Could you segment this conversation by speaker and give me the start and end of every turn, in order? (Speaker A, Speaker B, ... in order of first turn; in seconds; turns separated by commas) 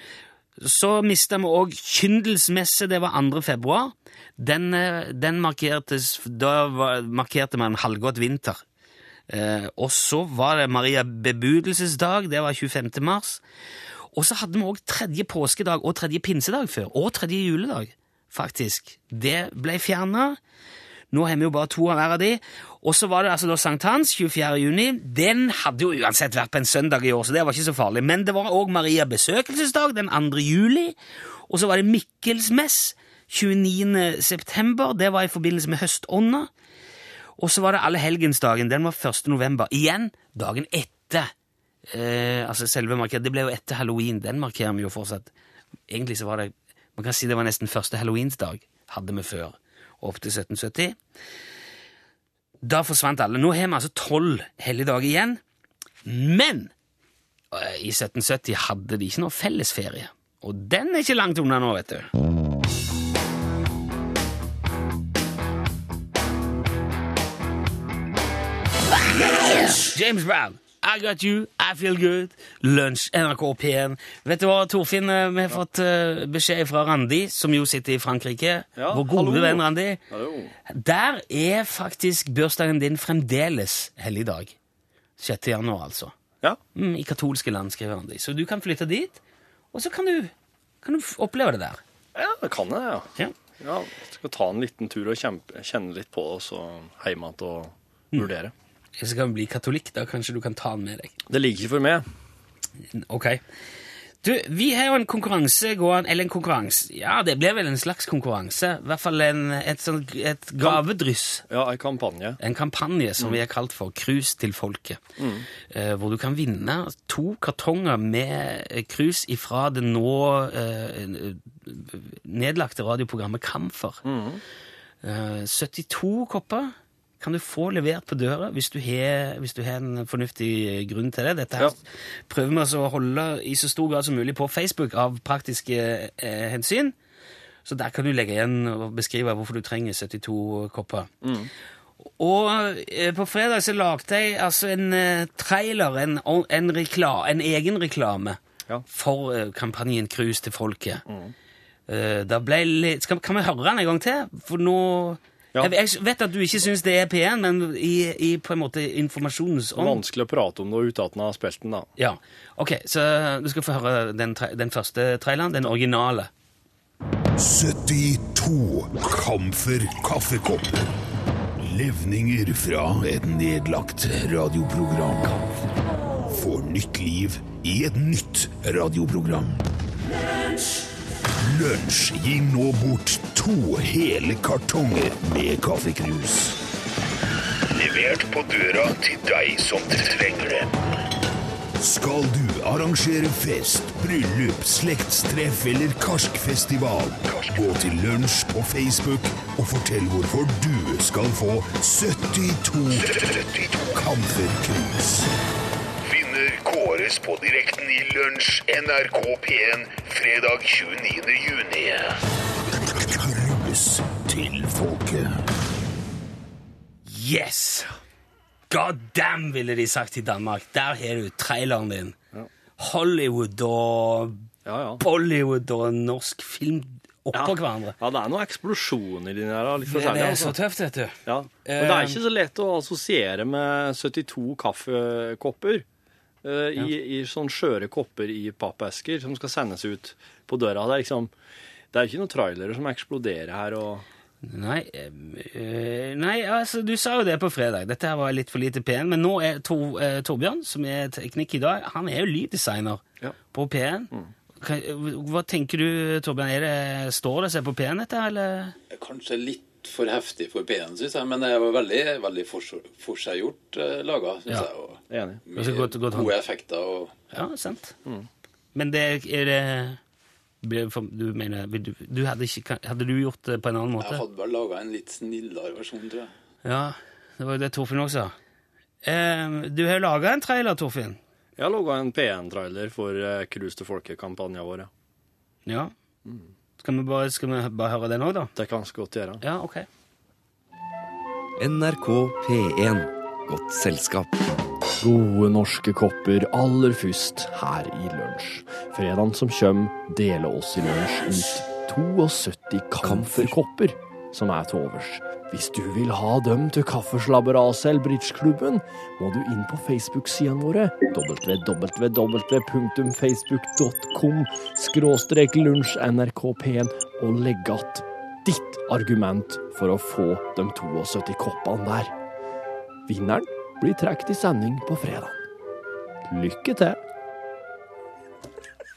Speaker A: 0.6-8.6, Speaker A: 9.3-13.4, Speaker A: 14.1-20.4, Speaker A: 21.1-30.9, Speaker A: 31.5-36.5, Speaker A: 37.4-41.3, Speaker A: 41.9-45.3, Speaker A: 45.9-51.0, Speaker A: 52.6-55.4, Speaker A: 56.0-56.7, Speaker A: 57.5-62.1, Speaker A: 69.2-80.0, Speaker B: 78.8-80.5, Speaker A: 80.7-84.5, Speaker A: 85.2-86.1, Speaker A: 86.7-89.2, Speaker A: 89.7-91.8, Speaker B: 92.1-93.1, Speaker B: 93.6-98.5, Speaker A: 99.0-101.1, Speaker B: 101.3-102.0, Speaker A: 102.9-103.4, Speaker A: 104.2-111.4, Speaker B: 111.5-112.4, Speaker A: 112.4-115.0, Speaker B: 115.2-115.5, Speaker A: 115.7-124.0, Speaker B: 124.0-124.4, Speaker A: 125.0-136.9, Speaker A: 137.6-141.1, Speaker B: 141.2-141.5, Speaker A: 142.2-151.0, Speaker B: 151.1-151.3, Speaker A: 151.9-160.0, Speaker B: 159.8-161.9, Speaker A: 162.0-166.3, Speaker C: 167.4-170.9, Speaker C: 171.6-175.4, Speaker C: 176.3-179.7, Speaker C: 181.4-186.6, Speaker C: 187.7-190.7, Speaker C: 191.8-205.3, Speaker C: 206.1-212.2, Speaker C: 212.8-215.5, Speaker A: 217.1-217.9, Speaker A: 218.7-222.2, Speaker A: 222.8-224.5, Speaker B: 224.6-225.0, Speaker A: 225.0-227.9, Speaker B: 227.3-230.6, Speaker A: 229.8-232.2, Speaker B: 231.2-235.8, Speaker B: 236.4-241.3, Speaker B: 241.9-244.0, Speaker A: 244.4-258.7, Speaker D: 258.9-267.1, Speaker B: 265.1-265.4, Speaker A: 265.5-266.3, Speaker A: 267.3-267.9, Speaker A: 268.7-270.0, Speaker A: 270.6-274.2, Speaker D: 274.0-276.3, Speaker A: 276.6-278.3, Speaker A: 279.0-281.2, Speaker B: 281.6-284.9, Speaker A: 285.6-285.9, Speaker A: 286.8-288.5, Speaker B: 288.5-289.4, Speaker A: 289.4-289.9, Speaker E: 291.6-294.3, Speaker B: 295.0-322.1, Speaker E: 303.0-303.5, Speaker B: 323.1-325.4, Speaker B: 326.3-327.0